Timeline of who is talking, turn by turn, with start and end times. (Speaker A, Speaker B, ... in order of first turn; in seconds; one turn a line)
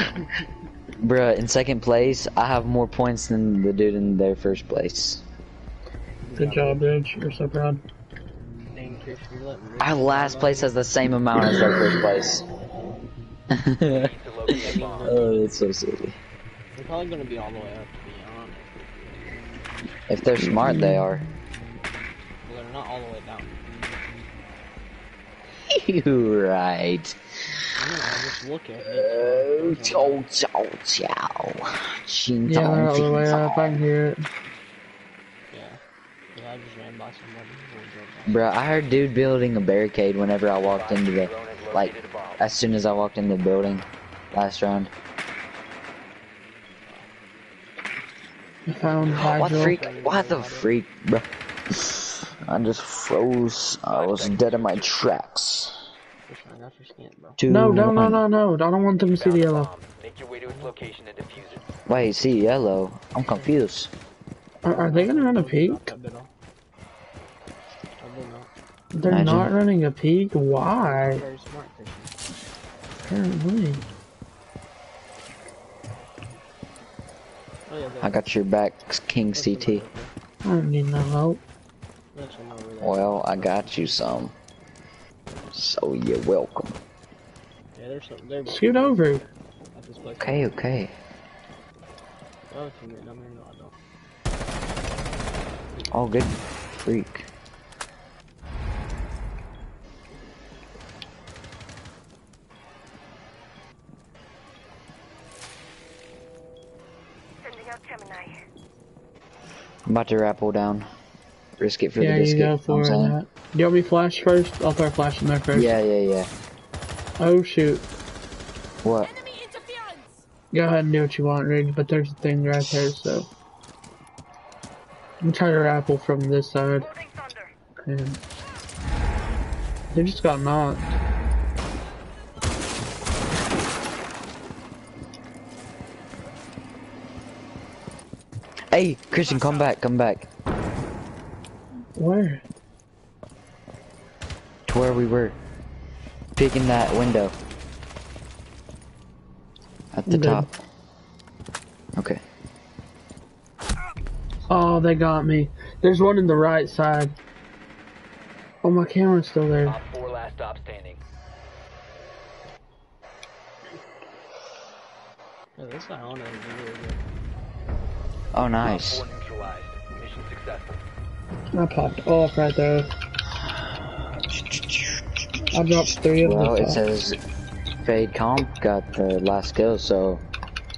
Speaker A: 1.0-5.2
Speaker B: 6.2-6.8
Speaker C: 6.3-7.8
Speaker B: 8.7-10.7
Speaker A: 9.8-12.4
Speaker A: 13.5-16.2
Speaker D: 13.8-15.3
Speaker B: 14.6-15.4
Speaker B: 16.7-19.4
Speaker A: 20.1-21.2
Speaker C: 20.6-21.1
Speaker B: 22.4-23.9
Speaker A: 25.7-27.1
Speaker B: 27.8-30.3
Speaker A: 28.8-33.8
Speaker C: 32.5-34.3
Speaker B: 35.5-35.8
Speaker B: 36.3-38.4
Speaker A: 38.3-44.9
Speaker D: 40.6-42.4
Speaker C: 48.7-49.8
Speaker B: 48.8-50.7
Speaker A: 49.2-55.8
Speaker D: 53.8-54.9
Speaker B: 56.3-57.4
Speaker A: 57.4-58.2
Speaker C: 57.5-59.7
Speaker D: 59.1-61.6
Speaker B: 60.4-60.8
Speaker A: 61.9-63.9
Speaker B: 63.2-63.5
Speaker C: 64.6-65.9
Speaker B: 64.7-66.3
Speaker B: 68.0-68.5
Speaker C: 68.9-71.2
Speaker A: 69.1-69.5
Speaker B: 70.6-72.1
Speaker C: 73.0-73.8
Speaker B: 77.7-78.2
Speaker A: 78.0-79.8
Speaker B: 79.3-80.1
Speaker C: 80.4-81.4
Speaker B: 82.1-84.2
Speaker A: 82.8-84.3
Speaker A: 85.5-86.8
Speaker B: 87.7-89.1
Speaker C: 88.5-89.3
Speaker B: 89.7-90.5
Speaker A: 90.2-90.9
Speaker B: 92.5-93.8
Speaker A: 95.9-97.3
Speaker E: 107.4-108.4
Speaker A: 109.9-110.8
Speaker A: 111.6-113.2
Speaker C: 112.0-115.7
Speaker A: 115.5-116.3
Speaker C: 117.2-117.8
Speaker A: 118.8-119.1
Speaker E: 119.5-119.9
Speaker C: 120.5-123.3
Speaker C: 125.2-126.9
Speaker E: 126.9-127.4
Speaker C: 127.8-128.2
Speaker C: 129.9-130.9
Speaker A: 138.7-140.3
Speaker C: 141.9-142.4
Speaker A: 144.7-145.3
Speaker A: 146.3-147.3
Speaker A: 149.9-150.5
Speaker C: 150.1-150.5
Speaker A: 151.9-152.2
Speaker C: 154.5-157.2
Speaker C: 158.6-159.8
Speaker D: 159.6-161.0
Speaker B: 165.6-167.1
Speaker A: 168.3-169.0
Speaker D: 168.6-170.8
Speaker C: 171.5-172.9
Speaker A: 174.3-177.2
Speaker C: 175.5-176.8
Speaker A: 177.8-180.2